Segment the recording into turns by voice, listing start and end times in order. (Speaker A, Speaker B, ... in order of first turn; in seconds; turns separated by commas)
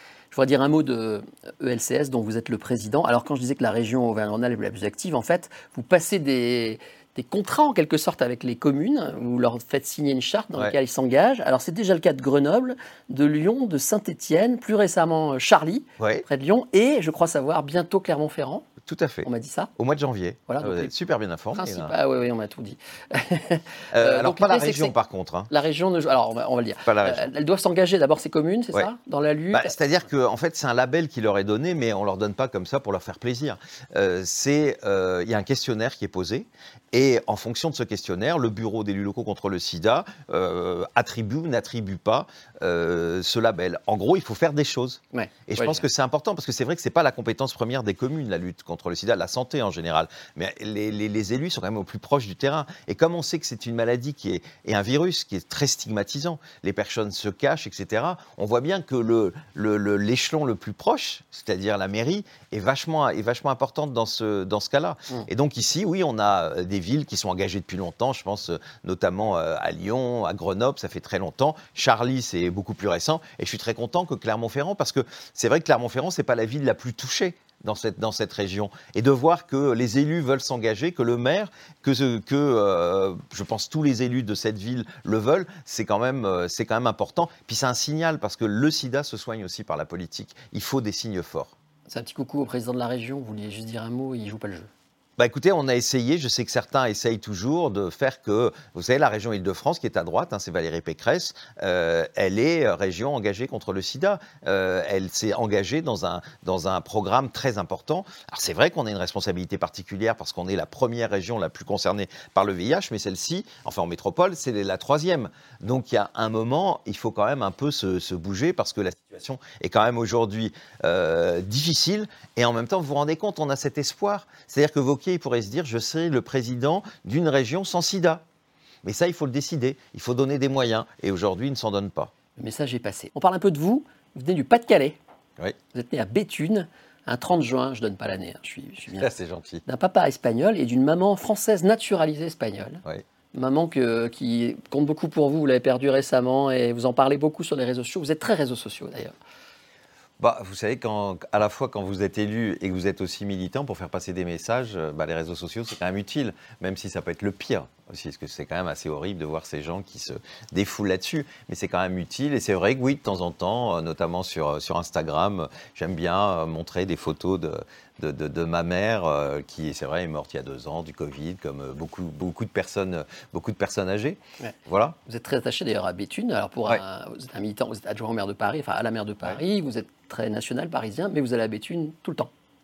Speaker A: 0.3-18.7, Speaker B: 16.0-16.2, Speaker B: 18.9-21.9, Speaker A: 19.2-19.7, Speaker A: 20.5-20.9, Speaker A: 21.5-24.9, Speaker B: 23.9-25.5, Speaker A: 25.5-29.8, Speaker B: 26.9-27.3, Speaker B: 29.5-91.5, Speaker A: 45.1-45.8, Speaker A: 91.9-94.7, Speaker B: 95.2-128.2, Speaker B: 128.8-132.1, Speaker A: 132.4-135.0, Speaker A: 135.7-139.1, Speaker B: 139.0-139.6, Speaker A: 139.7-149.1, Speaker B: 150.2-175.0, Speaker A: 175.1-182.3